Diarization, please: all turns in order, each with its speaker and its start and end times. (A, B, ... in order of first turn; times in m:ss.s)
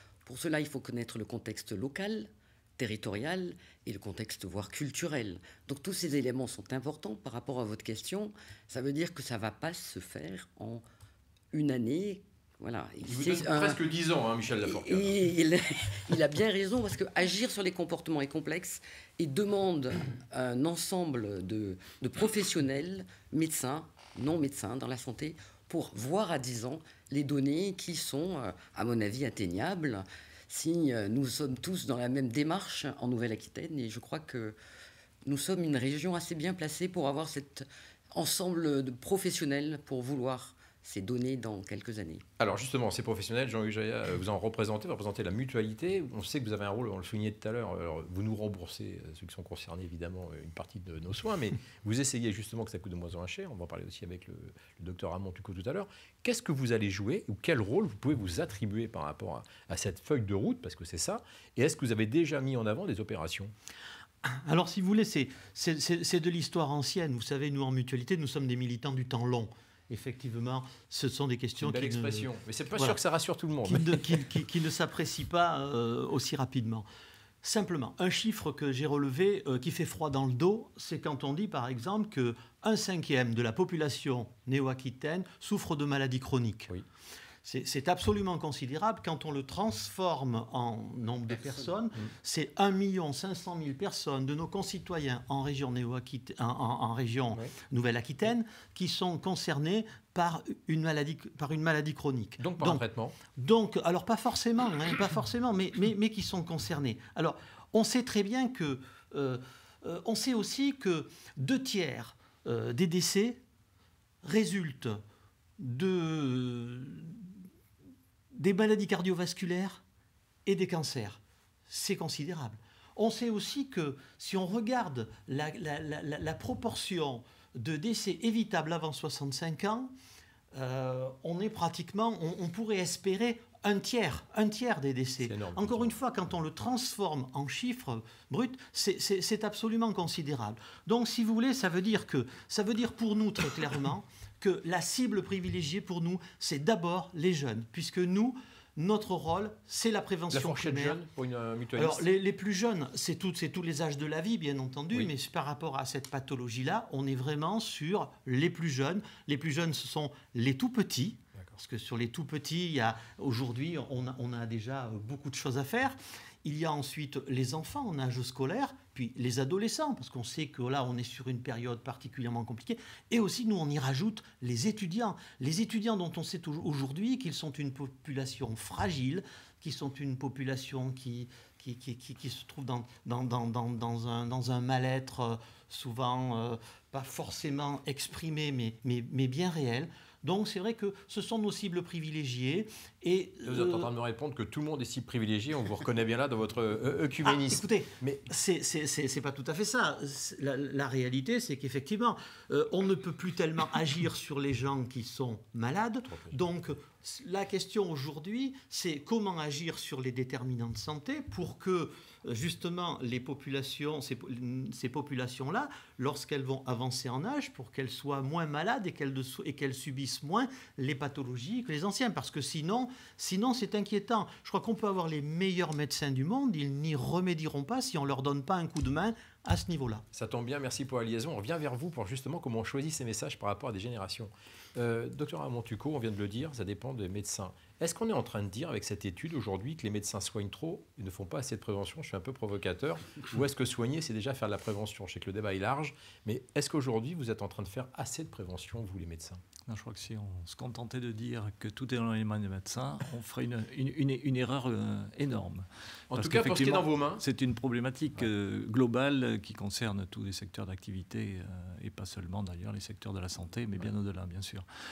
0:00.2-0:10.8 A
0:11.5-0:13.8 A
0:13.1-0:15.2 B
0:14.6-0:34.6 A
0:35.2-0:42.2 A
0:42.4-1:03.5 B
1:04.2-1:13.0 C
1:11.6-1:14.3 B
1:13.6-1:16.9 C
1:17.4-1:26.7 C
1:27.4-1:53.4 C
1:42.4-1:43.2 B
1:54.2-1:55.0 C
1:55.6-1:57.3 C
1:58.3-1:59.8 C
2:00.5-2:09.9 C
2:10.5-2:31.0 C
2:15.2-2:16.0 B
2:30.3-2:32.0 B
2:31.8-3:13.9 C
3:13.4-3:18.2 B
3:17.2-3:50.0 C
3:50.1-4:09.4 B
4:09.7-4:24.7 D
4:16.1-4:17.2 B